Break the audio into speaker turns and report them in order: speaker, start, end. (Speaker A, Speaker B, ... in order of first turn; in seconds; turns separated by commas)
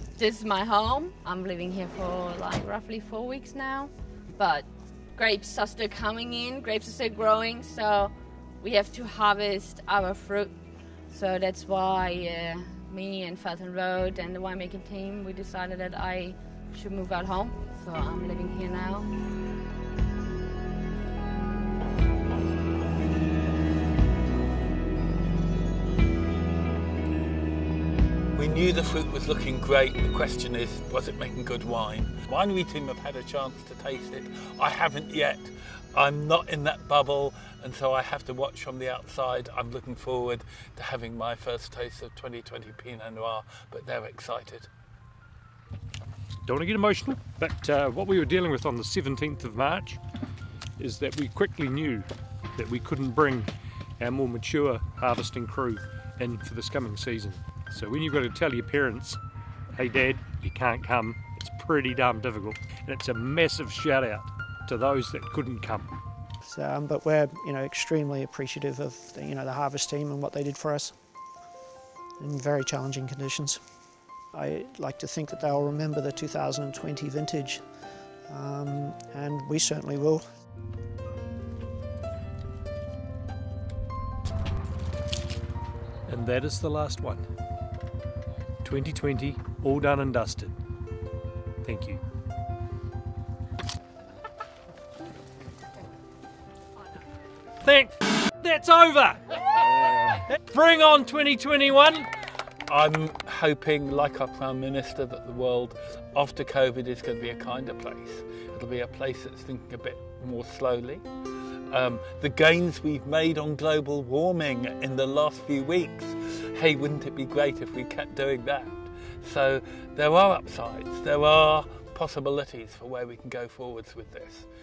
Speaker A: 0.2-10.6, Speaker A: 11.1-19.2, Speaker B: 28.3-44.7, Speaker C: 46.5-50.0, Speaker C: 50.8-59.2, Speaker C: 59.7-65.9, Speaker D: 66.5-71.0, Speaker D: 72.2-73.6, Speaker D: 74.3-77.6, Speaker D: 78.3-80.2, Speaker C: 86.1-87.2, Speaker C: 88.6-90.5, Speaker C: 91.6-92.0, Speaker C: 97.6-102.1, Speaker B: 102.7-111.0, Speaker B: 111.7-124.5